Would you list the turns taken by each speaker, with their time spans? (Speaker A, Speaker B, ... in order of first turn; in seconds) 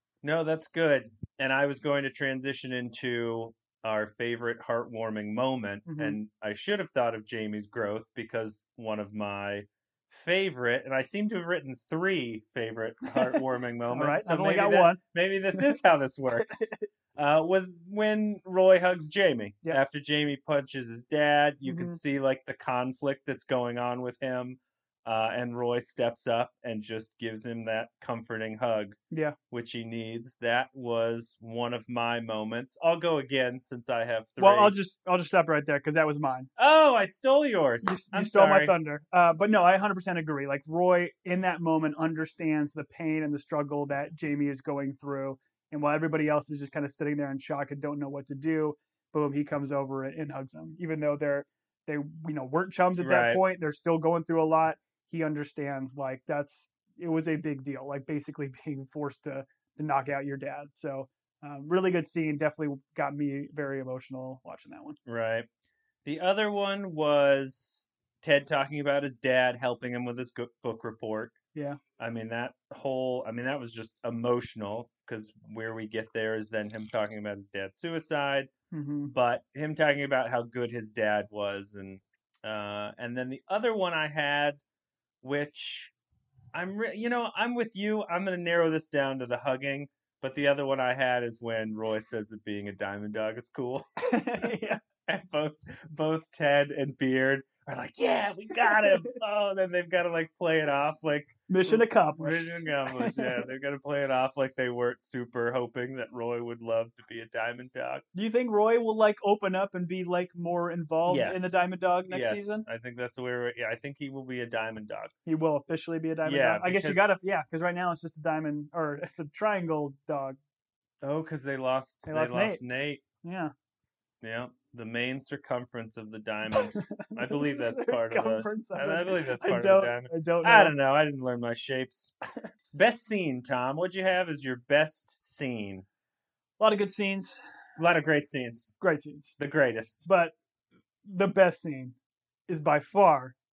Speaker A: 0.2-29.0, 29.5-34.8, 36.6-38.8, 53.0-53.4, 65.1-65.5, 66.0-71.4, 72.0-78.5, 79.1-84.6, 85.2-85.9, 86.5-94.5, 95.1-108.0, 111.1-111.5, 112.1-115.1, 116.2-117.1, 121.0-123.0, 124.2-132.1, 132.7-135.9, 137.8-138.8, 139.4-140.1
Speaker B: 5.9-6.2, 13.9-15.0, 21.6-22.0, 29.1-29.4, 34.4-36.5, 37.8-65.0, 71.5-71.8, 78.7-79.1, 94.0-94.8, 101.5-103.3, 108.1-112.6, 115.3-120.4, 122.1-122.6, 123.2-123.5, 126.5-130.8, 136.6-137.4, 138.8-139.4, 140.1-140.3, 141.1-141.9, 142.5-143.3